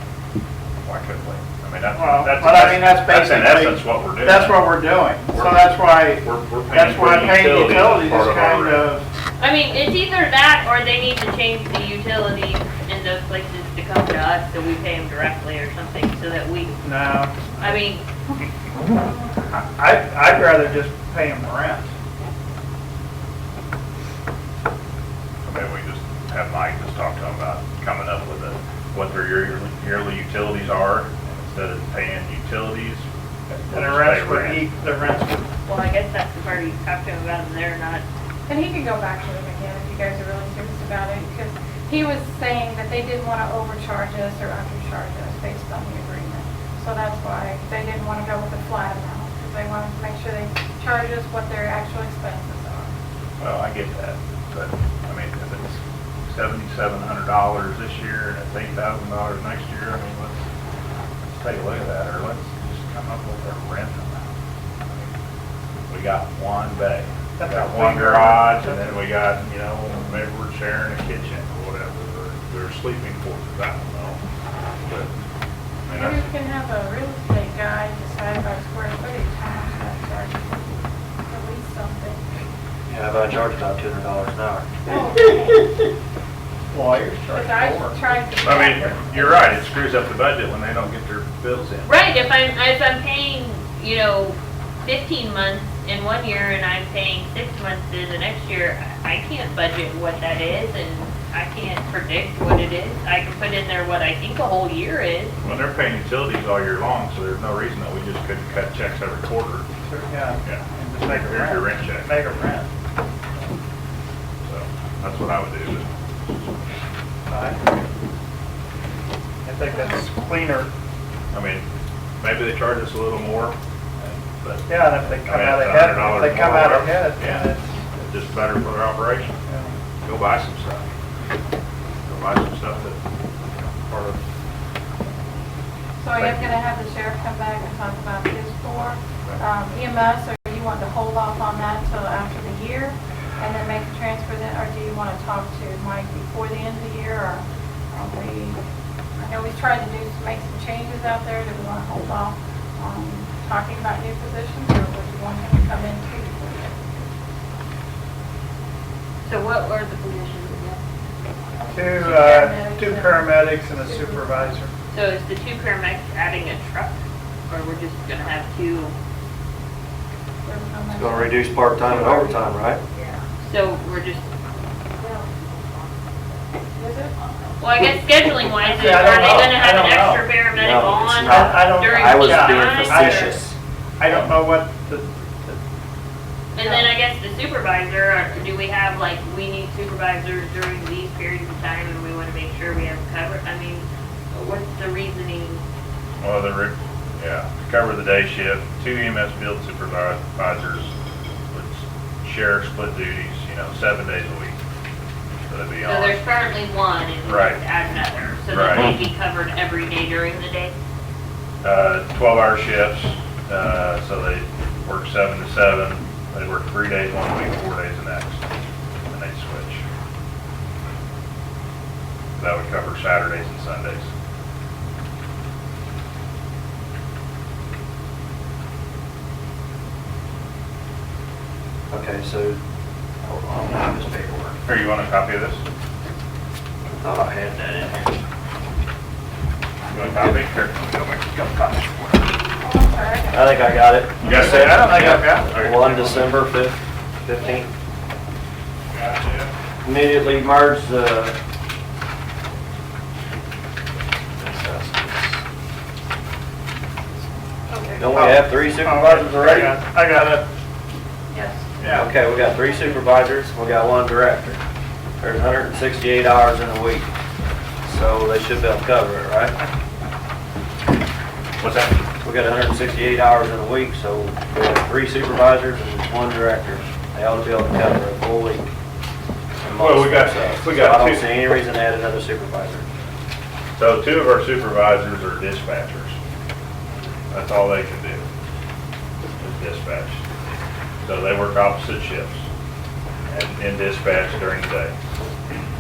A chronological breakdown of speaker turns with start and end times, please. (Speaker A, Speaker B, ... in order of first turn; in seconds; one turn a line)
Speaker A: 0.8-9.0
Speaker B: 1.9-9.1
Speaker C: 9.4-16.8
Speaker B: 16.8-17.8
Speaker C: 17.6-18.1
Speaker B: 19.8-21.9
Speaker A: 25.4-33.0
Speaker B: 33.5-35.5
Speaker A: 33.7-34.7
Speaker C: 35.6-38.0
Speaker D: 38.5-52.9
Speaker A: 53.4-60.4
Speaker A: 61.3-64.3
Speaker A: 64.8-65.1
Speaker A: 65.9-74.2
Speaker B: 67.4-69.0
Speaker A: 74.8-75.1
Speaker A: 75.8-76.3
Speaker D: 75.9-82.2
Speaker E: 82.9-84.7
Speaker D: 84.8-85.7
Speaker B: 86.7-88.0
Speaker D: 87.3-89.6
Speaker A: 88.4-91.9
Speaker C: 91.8-105.3
Speaker A: 105.4-109.7
Speaker B: 109.8-112.7
Speaker A: 110.4-112.1
Speaker A: 114.4-116.6
Speaker B: 117.3-117.6
Speaker B: 119.4-120.7
Speaker A: 121.3-121.6
Speaker A: 122.2-129.3
Speaker B: 124.7-128.1
Speaker B: 129.5-129.8
Speaker A: 130.0-130.9
Speaker A: 132.1-133.0
Speaker A: 133.6-134.2
Speaker D: 136.0-148.6
Speaker A: 136.2-136.6
Speaker D: 149.2-157.1
Speaker C: 159.2-160.8
Speaker D: 161.6-164.6
Speaker B: 161.7-164.7
Speaker C: 164.9-168.9
Speaker D: 170.4-172.6
Speaker E: 170.9-172.8
Speaker C: 172.9-174.3
Speaker C: 175.0-175.5
Speaker D: 176.7-177.2
Speaker C: 177.6-183.3
Speaker B: 178.5-180.3
Speaker E: 180.5-183.6
Speaker B: 181.2-183.4
Speaker B: 184.0-185.6
Speaker C: 186.5-195.6
Speaker D: 186.6-186.9
Speaker A: 196.2-200.9
Speaker A: 201.5-204.6
Speaker A: 205.5-206.2
Speaker C: 205.8-210.7
Speaker A: 207.2-207.6
Speaker A: 208.5-208.9
Speaker A: 211.6-218.4
Speaker A: 219.1-219.8
Speaker A: 222.4-224.1
Speaker E: 231.9-232.6
Speaker E: 233.2-234.6
Speaker A: 234.7-235.6
Speaker E: 236.9-238.2
Speaker A: 239.9-242.1
Speaker D: 242.6-243.7
Speaker E: 243.3-247.7
Speaker A: 244.2-246.4
Speaker B: 244.2-245.5
Speaker A: 248.9-249.5
Speaker E: 249.8-251.4
Speaker E: 254.3-255.4
Speaker C: 257.7-258.0
Speaker E: 257.9-259.7
Speaker B: 258.1-260.4
Speaker A: 259.1-259.7
Speaker D: 261.3-261.7
Speaker A: 261.8-262.1
Speaker E: 261.9-264.6
Speaker E: 265.2-267.1
Speaker E: 267.8-269.6
Speaker A: 271.6-272.0
Speaker E: 272.2-278.7
Speaker E: 279.6-282.8
Speaker A: 279.8-281.2
Speaker A: 283.8-286.1
Speaker A: 287.3-288.3
Speaker A: 289.4-290.2
Speaker A: 291.0-292.5
Speaker A: 293.3-294.9